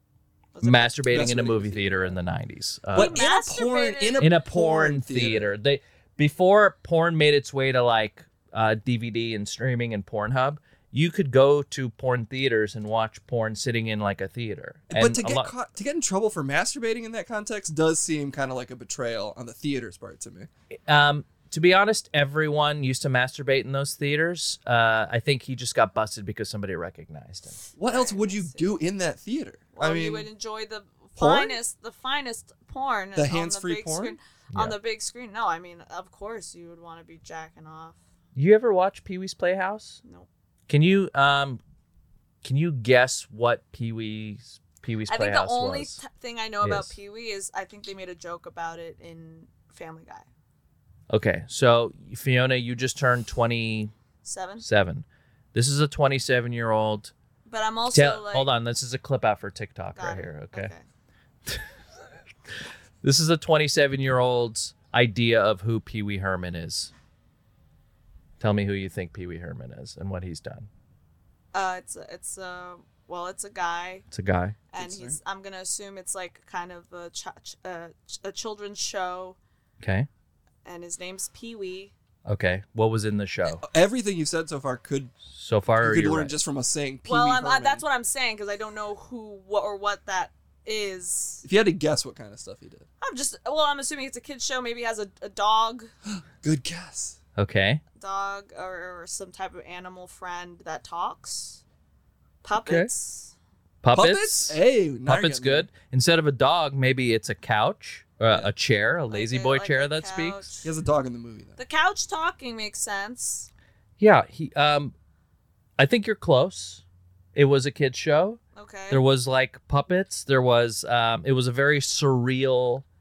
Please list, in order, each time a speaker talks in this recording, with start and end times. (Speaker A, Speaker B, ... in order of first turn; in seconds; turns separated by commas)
Speaker A: 0.5-1.0, Speaker B: 0.6-3.2, Speaker C: 1.1-2.1, Speaker C: 2.9-5.5, Speaker A: 3.0-4.3, Speaker B: 4.2-15.5, Speaker C: 14.9-20.5, Speaker B: 20.9-27.6, Speaker C: 27.8-30.3, Speaker A: 27.8-28.8, Speaker A: 29.7-38.0, Speaker C: 31.2-31.6, Speaker C: 33.1-34.1, Speaker B: 38.3-40.0, Speaker B: 40.7-41.6, Speaker B: 42.4-46.0, Speaker A: 45.1-50.3, Speaker B: 46.6-46.9, Speaker B: 51.1-53.9, Speaker A: 54.2-54.6, Speaker B: 54.6-57.1, Speaker A: 57.5-58.5, Speaker B: 57.9-60.7, Speaker A: 60.0-60.8, Speaker B: 63.0-66.9, Speaker B: 68.4-70.7, Speaker A: 71.5-74.0, Speaker B: 74.1-74.6, Speaker A: 74.7-79.4, Speaker C: 74.8-75.2, Speaker B: 79.8-80.1, Speaker A: 80.6-81.9, Speaker B: 82.2-83.6, Speaker C: 83.5-85.1, Speaker B: 85.3-86.4, Speaker C: 85.8-87.8, Speaker A: 87.0-91.4, Speaker C: 91.4-92.8, Speaker A: 93.0-95.9, Speaker C: 96.1-97.2, Speaker B: 97.4-97.8, Speaker A: 98.0-101.6, Speaker A: 102.4-103.3, Speaker B: 102.6-102.9, Speaker B: 103.8-110.5, Speaker C: 103.9-105.7, Speaker A: 109.1-110.7, Speaker C: 110.6-111.6, Speaker A: 111.6-113.5, Speaker B: 114.0-114.9, Speaker B: 115.8-116.8, Speaker B: 117.3-118.4, Speaker A: 118.5-119.0, Speaker B: 118.9-122.8